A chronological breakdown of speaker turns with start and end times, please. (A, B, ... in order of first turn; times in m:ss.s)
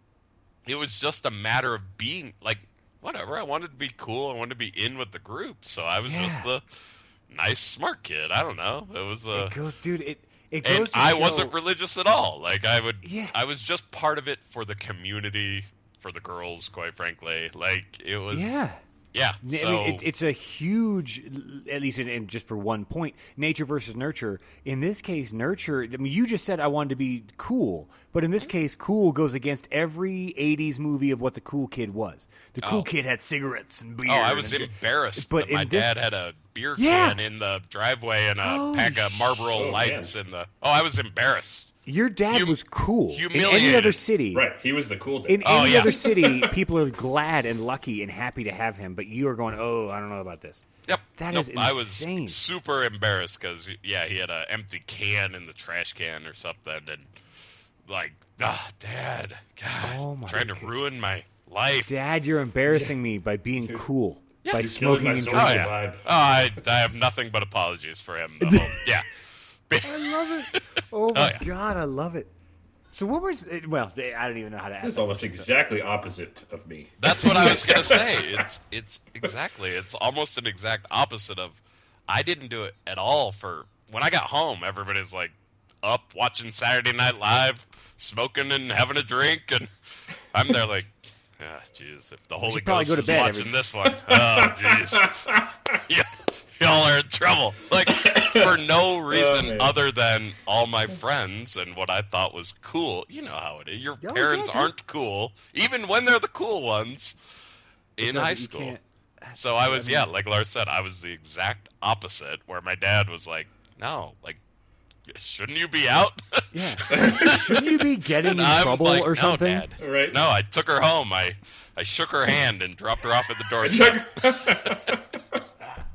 0:00.7-0:06.6 A
0:06.1-0:06.5 B
0:07.3-0:09.6 A
0:09.3-0:11.6 B
0:10.6-0:20.1 A
0:13.0-0:13.4 B
0:18.3-0:18.8 B
0:19.4-0:36.0 B
0:32.6-0:32.9 A
0:34.1-0:41.7 A
0:36.8-0:37.2 B
0:38.4-0:39.6 B
0:39.6-0:40.1 C
0:41.9-0:44.5 B
0:42.3-0:42.6 A
0:43.1-0:44.0 A
0:44.3-0:46.5 C
0:45.3-0:50.7 B
0:45.4-0:46.0 A
0:50.9-0:57.1 A
0:51.2-0:52.4 B
0:57.8-1:02.0 A
0:59.8-1:00.7 B
1:01.8-1:05.7 B
1:04.4-1:11.5 A
1:04.6-1:06.0 C
1:08.4-1:08.9 B
1:09.8-1:12.3 B
1:12.9-1:15.5 B
1:14.8-1:18.4 C
1:17.0-1:29.7 A
1:17.1-1:18.0 B
1:30.3-1:35.2 A
1:32.4-1:33.6 B
1:34.1-1:35.7 C
1:35.7-1:47.2 A
1:37.9-1:38.6 C
1:39.1-1:39.8 C
1:44.0-1:44.7 B
1:48.0-1:48.8 A
1:48.0-1:50.1 B
1:49.4-1:54.4 A
1:55.1-2:04.7 A
1:56.5-1:59.7 B
1:56.9-1:57.5 C
1:59.8-2:00.2 C
2:03.6-2:05.2 C